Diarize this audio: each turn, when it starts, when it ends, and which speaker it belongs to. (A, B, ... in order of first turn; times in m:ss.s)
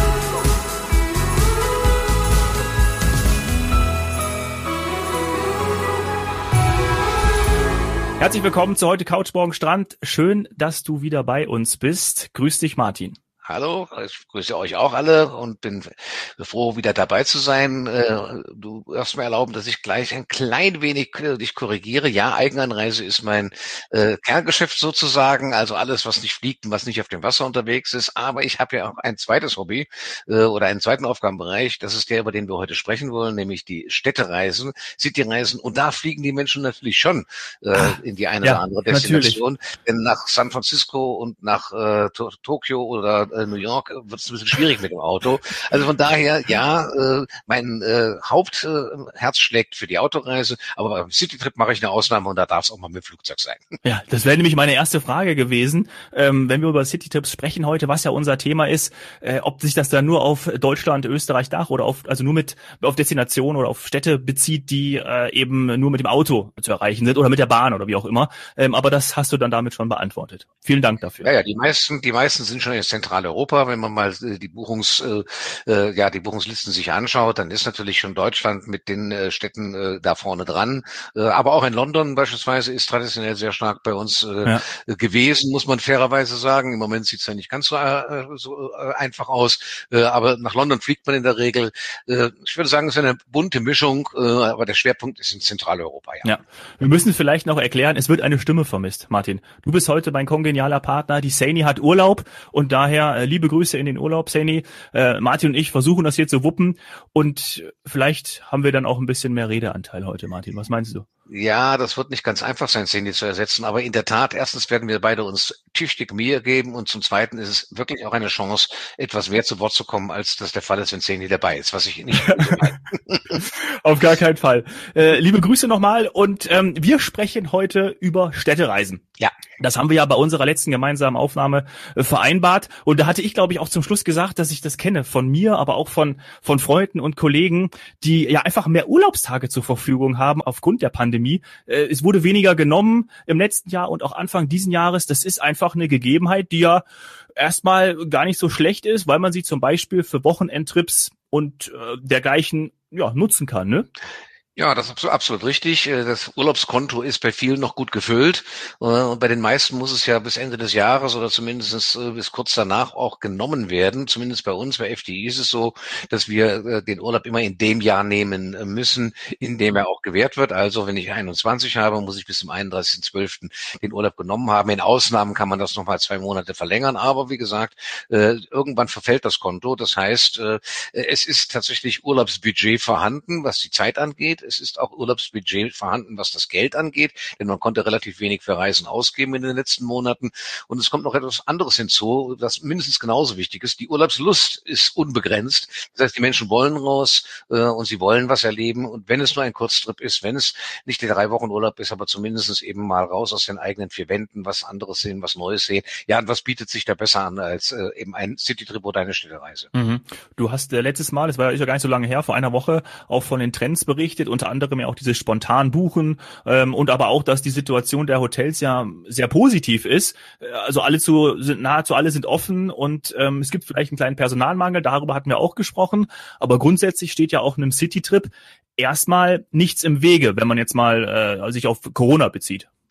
0:08.2-0:13.2 A
0:13.5-0:53.7 B
0:37.8-0:39.4 A
0:53.8-1:11.3 A
1:11.2-1:36.4 B
1:36.2-1:51.1 A
1:51.3-2:03.4 B
2:02.3-2:02.7 A
2:03.4-2:09.0 A
2:09.6-2:26.8 A
2:27.4-2:33.9 A
2:34.6-3:29.7 B
3:29.7-3:52.7 A